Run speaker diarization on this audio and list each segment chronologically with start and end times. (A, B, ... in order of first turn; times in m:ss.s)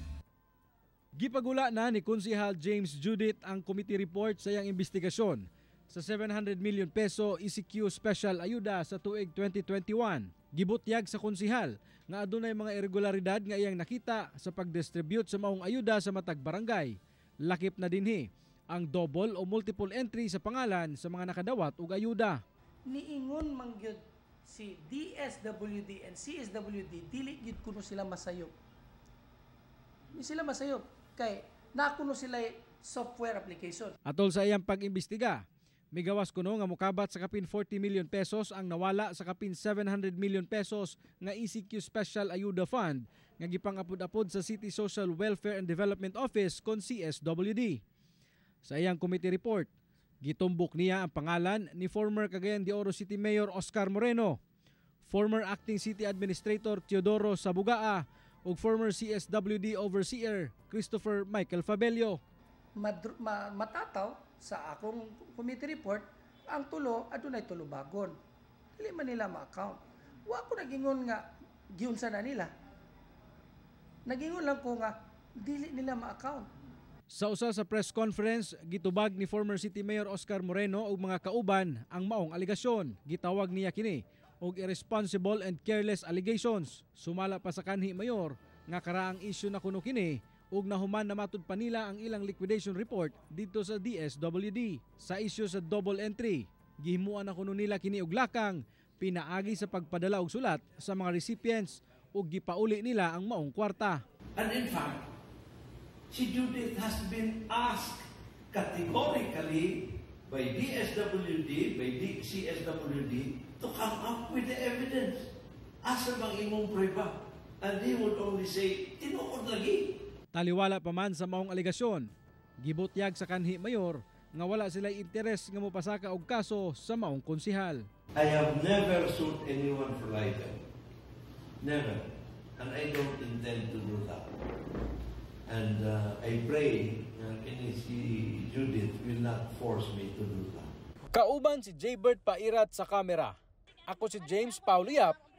0:01.2-0:22.4 A
0:22.8-0:28.5 B
0:30.1-0:34.0 B
0:34.0-0:35.4 A
0:35.9-0:47.8 A
0:48.6-0:49.7 A
0:50.2-0:54.4 A
0:55.0-1:02.2 A
1:02.8-1:08.1 B
1:08.8-1:12.5 B
1:14.0-1:16.5 B
1:17.1-1:44.0 A
1:44.4-1:45.0 C
1:46.1-1:55.2 C
1:55.8-2:00.0 C
2:00.3-2:02.1 A
2:02.6-2:07.8 A
2:08.2-2:10.6 C
2:11.6-2:12.0 C
2:12.6-2:14.2 C
2:15.5-2:20.7 C
2:21.1-2:23.4 A
2:23.9-2:25.2 A